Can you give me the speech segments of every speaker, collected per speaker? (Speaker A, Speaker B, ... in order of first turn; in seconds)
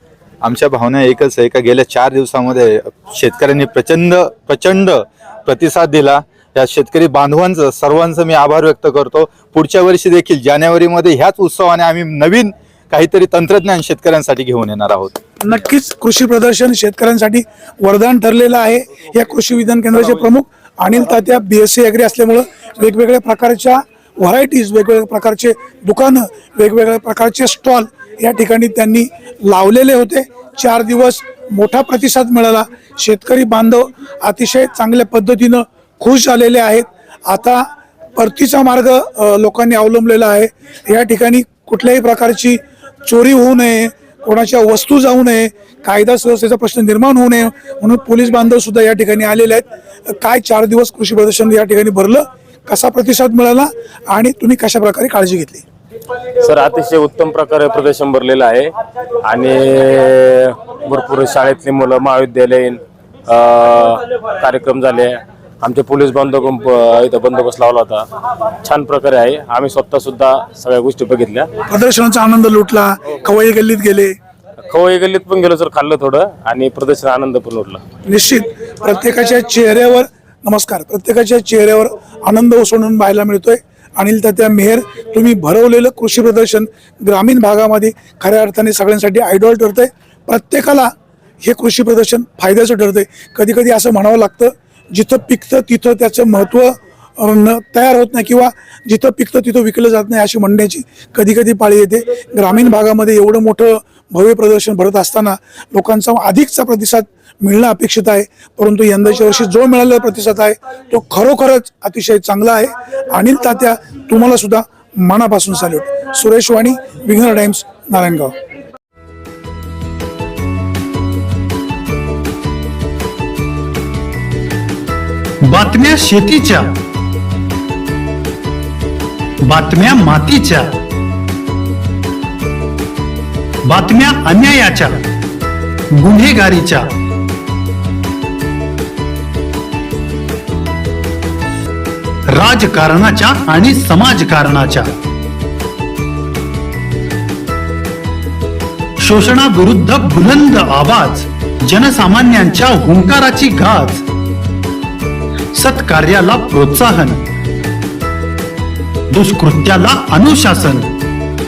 Speaker A: 0.4-15.2
Speaker B: 15.4-55.6, 71.7-74.2, 78.0-118.3
Speaker C: 56.4-58.7, 59.2-68.0, 68.6-71.5, 74.6-77.8
Speaker D: 125.4-126.7, 129.4-130.8, 133.7-135.0, 135.9-136.9, 142.3-144.9, 149.0-154.0, 155.5-157.2, 159.1-160.9